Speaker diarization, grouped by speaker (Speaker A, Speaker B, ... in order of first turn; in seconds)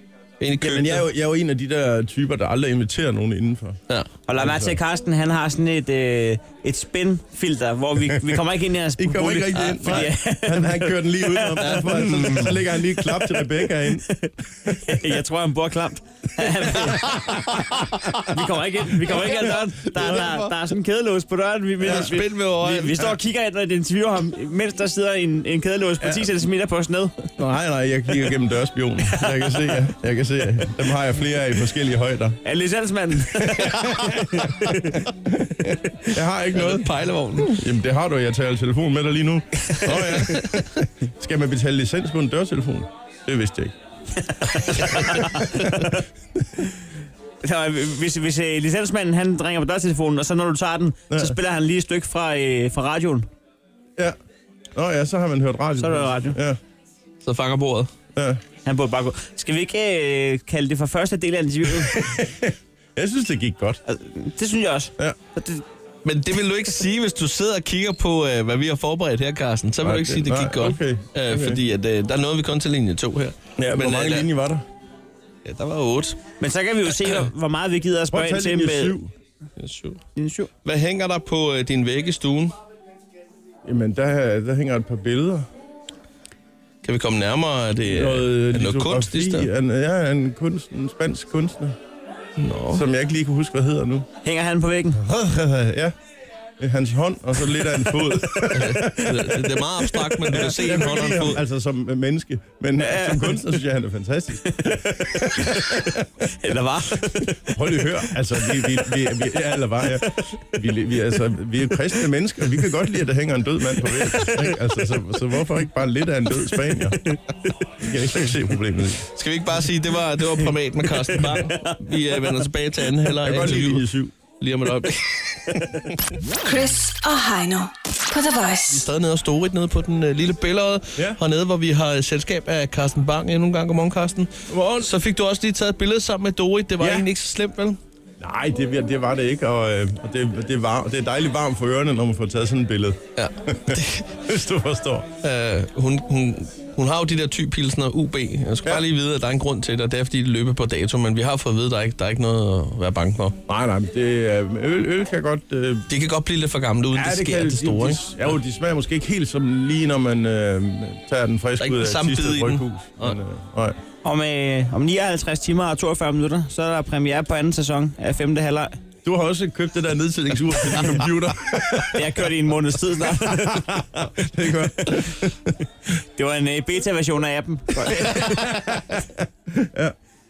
Speaker A: 0.4-1.1, 9.5-10.1, 11.6-12.7, 17.1-18.2, 19.1-20.6, 21.8-23.2, 36.5-37.6, 39.8-40.8, 44.7-45.5, 57.2-57.9, 66.0-74.3, 75.4-76.2, 79.6-80.0, 80.6-82.5, 86.8-89.5, 92.4-92.8, 98.5-101.4, 119.1-123.8, 124.4-125.6, 128.7-137.8, 143.2-144.1, 145.2-153.4, 155.9-158.4, 161.6-163.2, 170.6-171.0
Speaker B: 0.6-3.8, 4.3-4.8, 9.0-14.1, 16.7-17.8, 26.0-26.3, 27.4-32.4, 33.3-43.7, 44.7-46.5, 51.1-51.4, 54.8-56.6, 58.1-58.4, 61.8-63.8, 69.8-71.6, 73.6-74.6, 78.1-79.1, 83.6-85.5, 87.8-91.8, 92.7-94.1, 95.0-95.9, 96.6-99.6, 100.3-106.1, 107.1-117.1, 117.8-119.1, 123.2-124.1, 134.5-134.9, 136.8-137.1, 138.2-145.1, 153.5-155.9, 156.9-163.8, 169.0-172.4, 173.0-175.6, 177.8-179.9
Speaker C: 4.3-12.1, 12.9-27.3, 29.0-29.8, 32.4-35.0, 35.6-36.1, 44.4-45.9, 47.4-53.2, 55.8-56.4, 58.6-62.2, 63.9-65.6, 76.4-79.0, 80.1-80.5, 94.2-95.0, 97.8-98.6, 100.2-100.5, 102.8-103.5, 104.5-109.2, 109.9-110.6, 113.8-114.6, 121.1-121.7, 164.0-168.7, 171.9-173.8, 176.0-178.4
Speaker D: 126.4-128.9